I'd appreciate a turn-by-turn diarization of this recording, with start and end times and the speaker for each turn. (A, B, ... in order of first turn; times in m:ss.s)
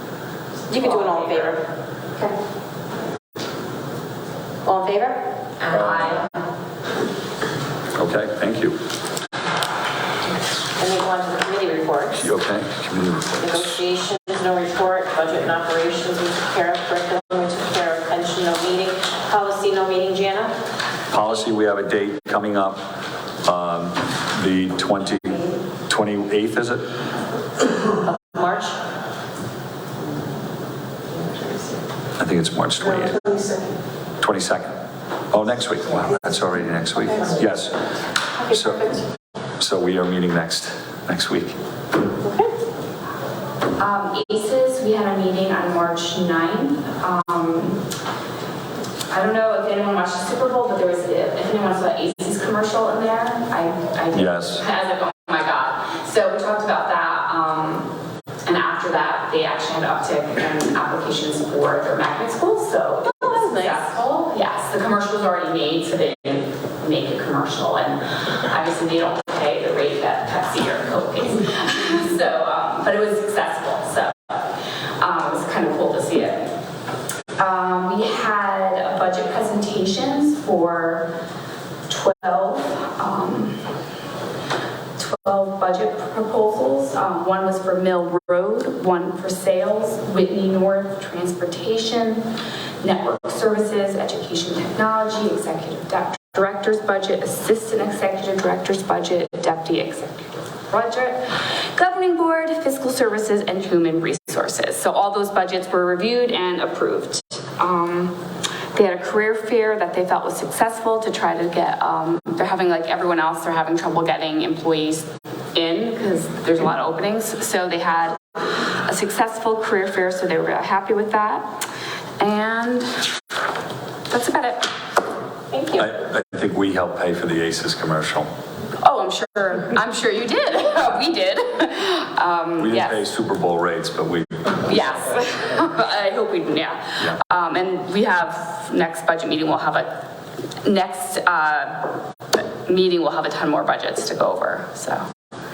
0:00.7-0:01.7 A
0:04.6-0:06.2 A
0:05.7-0:06.2 B
0:08.0-0:08.8 C
0:10.8-0:12.3 A
0:12.2-0:13.7 C
0:13.4-0:20.5 A
0:21.1-0:22.8 C
0:23.4-0:26.9 C
0:28.0-0:28.8 A
0:31.2-0:31.7 A
0:32.2-0:33.4 C
0:34.2-0:34.8 C
0:35.3-0:37.8 C
0:38.4-0:39.0 C
0:39.6-0:41.6 C
0:42.2-0:42.5 A
0:43.8-0:47.8 B
0:49.1-0:57.9 B
0:54.1-0:54.6 C
0:58.4-1:16.6 B
1:03.0-1:04.0 A
1:17.4-1:21.1 B
1:21.9-1:23.7 B
1:25.0-1:32.3 B
1:32.8-1:48.2 B
1:48.7-2:01.6 B
2:02.2-2:03.2 B
2:04.1-2:04.7 B
2:05.5-2:05.9 A
2:05.8-2:08.3 C
2:08.8-2:13.0 B
2:12.6-2:14.7 C
2:14.6-2:20.0 B
2:20.6-2:25.0 B